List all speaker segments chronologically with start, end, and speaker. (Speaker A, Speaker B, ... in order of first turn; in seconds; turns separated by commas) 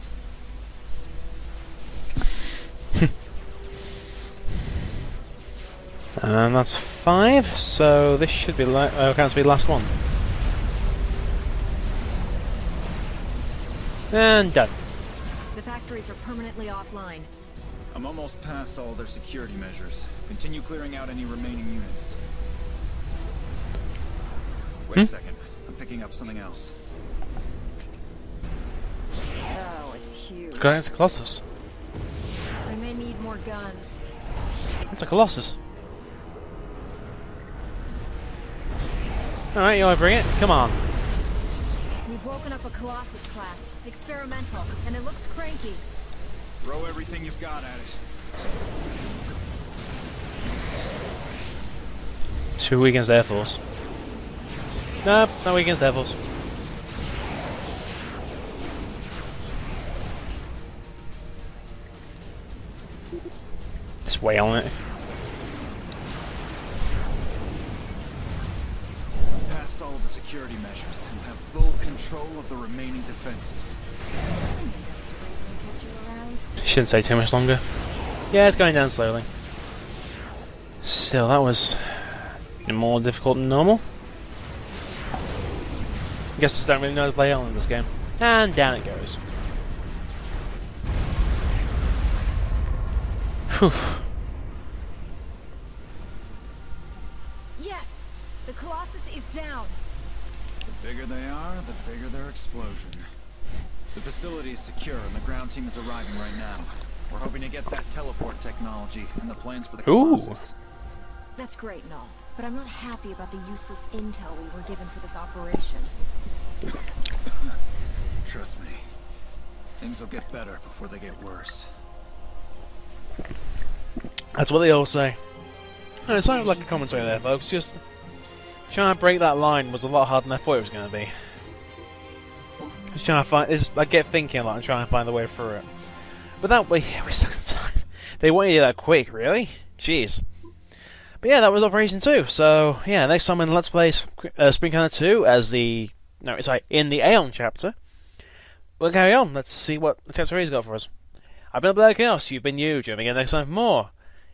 Speaker A: 6.2-9.9, Speaker A: 14.1-14.8, Speaker B: 15.5-17.3, Speaker C: 17.9-22.2, Speaker C: 24.9-26.7, Speaker B: 29.5-30.8, Speaker A: 30.6-31.4, Speaker B: 32.6-34.0, Speaker A: 34.9-35.6, Speaker A: 39.5-40.8, Speaker B: 42.0-45.8, Speaker C: 46.6-48.0, Speaker A: 52.6-53.6, Speaker A: 55.0-56.2, Speaker A: 64.0-64.8, Speaker C: 69.4-73.8, Speaker B: 74.3-76.5, Speaker A: 76.6-77.7, Speaker A: 78.3-79.3, Speaker A: 80.8-83.8, Speaker A: 86.3-89.2, Speaker A: 93.5-94.0, Speaker B: 97.5-99.8, Speaker C: 100.6-103.0, Speaker C: 103.9-110.5, Speaker A: 109.8-110.4, Speaker B: 111.3-115.9, Speaker C: 118.2-118.8, Speaker C: 119.8-121.7, Speaker A: 124.3-125.3, Speaker A: 126.0-127.8, Speaker A: 128.7-131.4, Speaker A: 132.9-140.5, Speaker A: 141.2-148.0, Speaker A: 148.8-151.0, Speaker A: 151.5-154.0